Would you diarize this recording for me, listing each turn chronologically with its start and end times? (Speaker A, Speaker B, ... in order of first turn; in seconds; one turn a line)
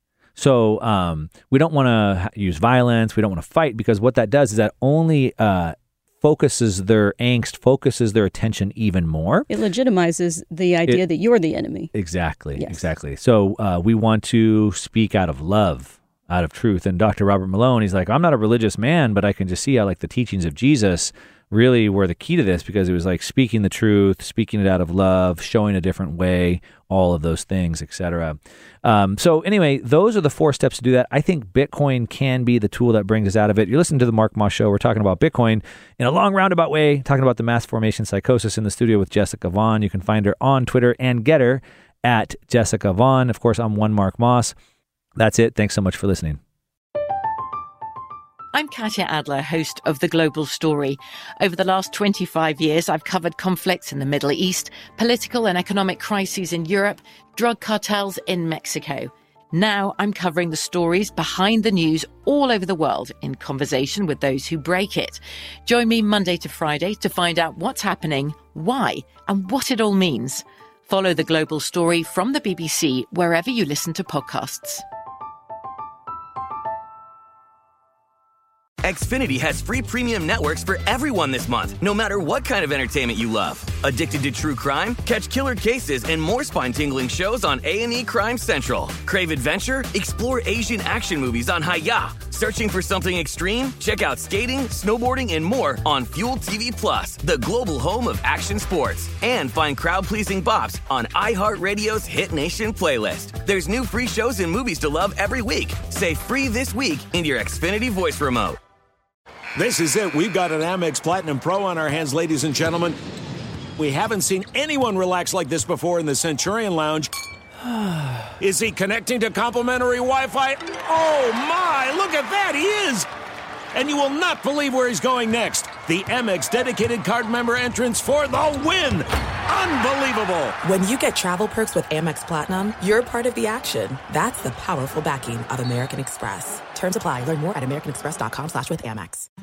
Speaker A: 0.4-9.5
Speaker B: 9.5-11.9
Speaker A: 11.9-44.5
Speaker B: 12.6-12.9
Speaker A: 45.2-46.4
Speaker C: 48.5-74.8
Speaker D: 78.8-108.6
Speaker E: 109.6-113.0
Speaker E: 113.8-117.1
Speaker E: 118.4-123.1
Speaker E: 123.7-130.6
Speaker F: 130.6-139.3